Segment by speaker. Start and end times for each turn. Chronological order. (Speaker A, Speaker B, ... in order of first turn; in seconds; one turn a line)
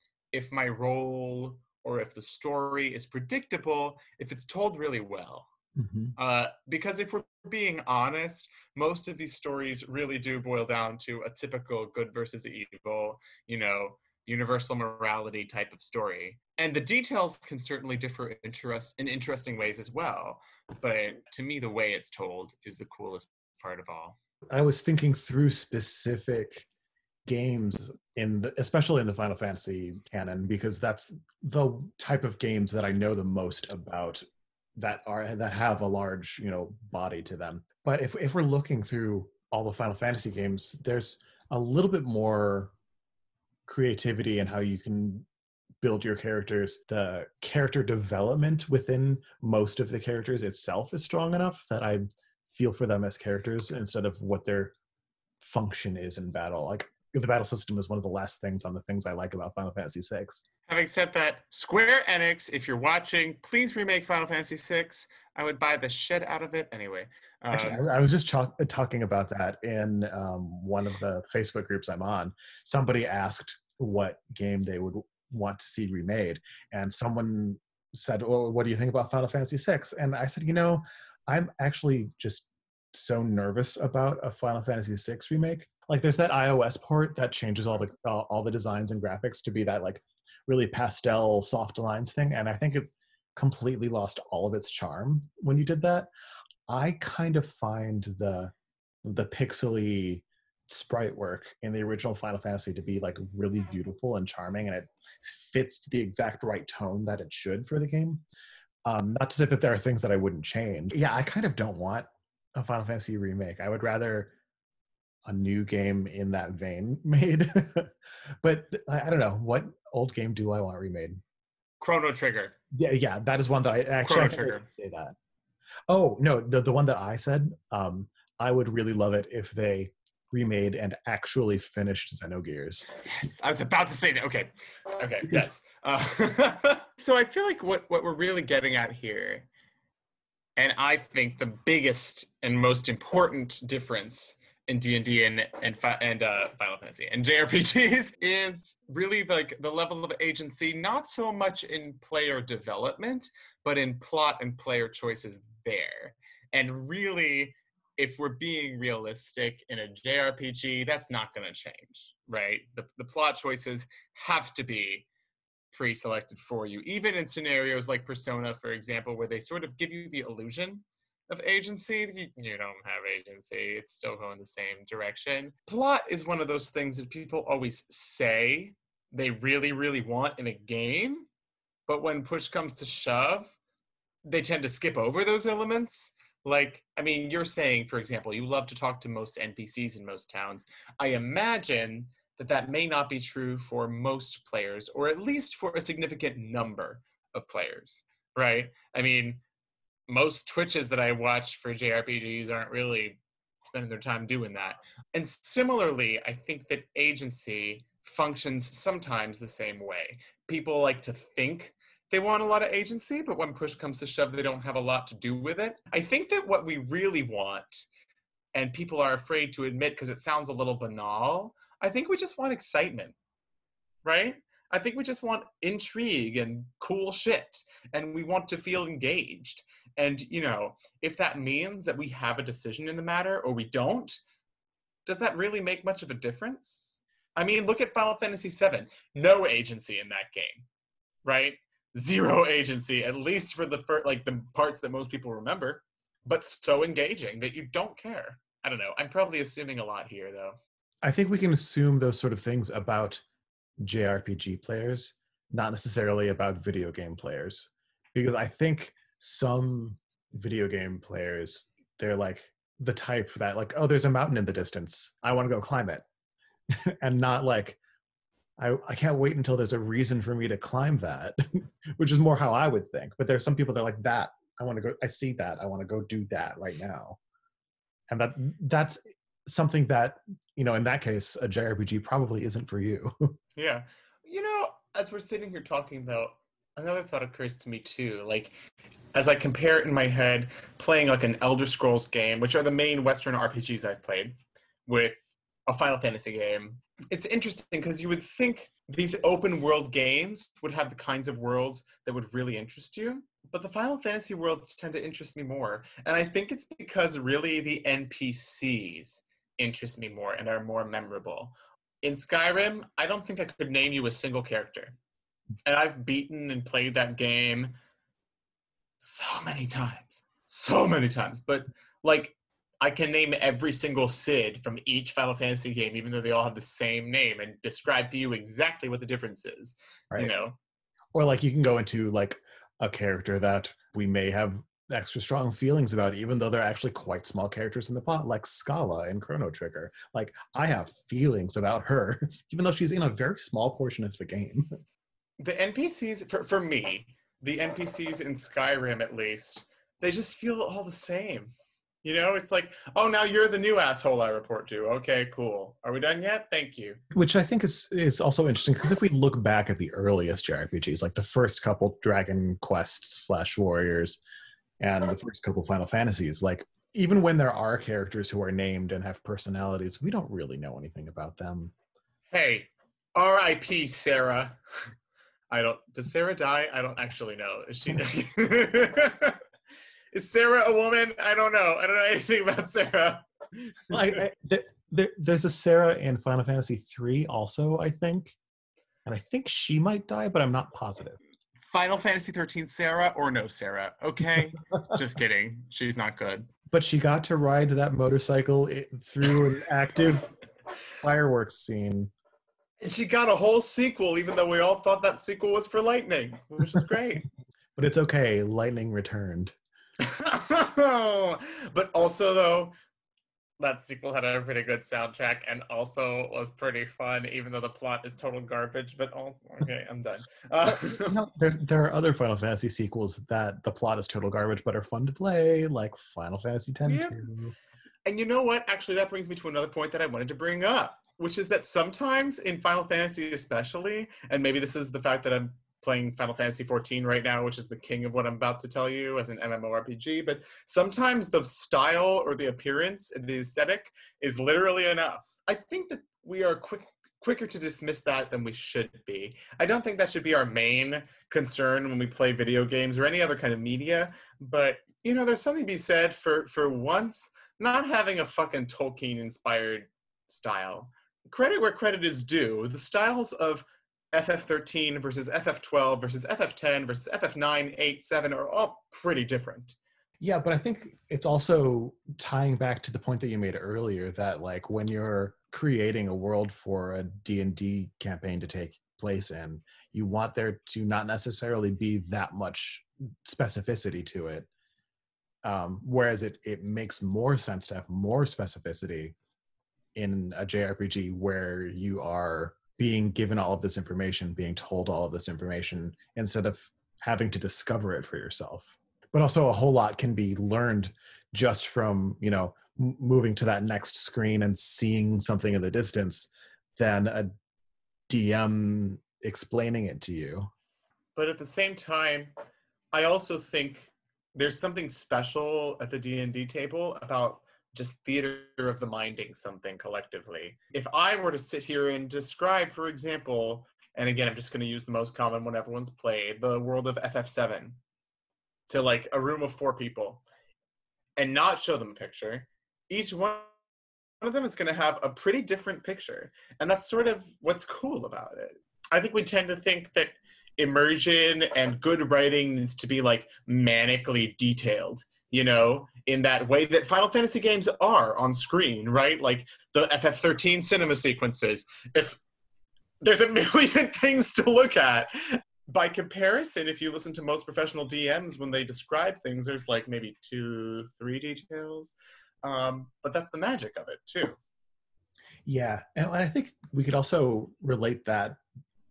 Speaker A: 0.3-5.5
Speaker B: 5.8-6.2
Speaker A: 6.2-24.2
Speaker B: 24.5-26.7
Speaker B: 27.3-34.2
Speaker B: 34.8-42.7
Speaker B: 43.7-45.3
Speaker B: 45.8-54.7
Speaker B: 55.4-60.4
Speaker A: 60.7-67.8
Speaker B: 67.5-96.1
Speaker B: 96.7-98.5
Speaker B: 99.0-108.2
Speaker B: 108.8-114.3
Speaker B: 115.3-121.2
Speaker A: 121.8-122.5
Speaker B: 122.7-125.2
Speaker A: 124.0-124.7
Speaker B: 125.9-132.9
Speaker A: 133.0-139.5
Speaker A: 140.6-165.1
Speaker A: 165.7-181.3
Speaker A: 181.9-183.6
Speaker A: 184.3-199.4
Speaker A: 200.1-217.9
Speaker A: 218.5-223.2
Speaker A: 224.0-234.2
Speaker A: 235.1-240.7
Speaker A: 241.2-250.6
Speaker B: 251.0-253.2
Speaker B: 253.8-266.1
Speaker B: 266.9-267.8
Speaker B: 268.6-277.2
Speaker B: 278.1-283.4
Speaker A: 283.6-288.6
Speaker A: 289.1-315.0
Speaker A: 315.6-317.8
Speaker A: 319.0-330.6
Speaker B: 331.1-344.7
Speaker A: 345.4-351.5
Speaker A: 352.0-357.0
Speaker B: 357.1-364.2
Speaker B: 364.8-371.7
Speaker A: 372.3-374.6
Speaker A: 375.5-379.4
Speaker A: 380.1-384.2
Speaker B: 383.9-388.4
Speaker B: 389.1-391.2
Speaker A: 391.6-396.5
Speaker B: 396.7-400.3
Speaker B: 401.0-402.1
Speaker A: 402.8-407.2
Speaker B: 407.8-409.6
Speaker A: 410.0-412.8
Speaker A: 413.6-421.2
Speaker B: 420.7-427.6
Speaker A: 426.9-427.2
Speaker A: 428.1-469.8
Speaker B: 470.2-484.5
Speaker B: 485.4-489.1
Speaker B: 490.0-507.3
Speaker B: 508.1-510.5
Speaker A: 511.2-512.3
Speaker A: 512.9-527.8
Speaker A: 528.7-530.2
Speaker A: 531.2-533.5
Speaker A: 534.2-552.2
Speaker A: 553.0-564.4
Speaker B: 565.5-568.4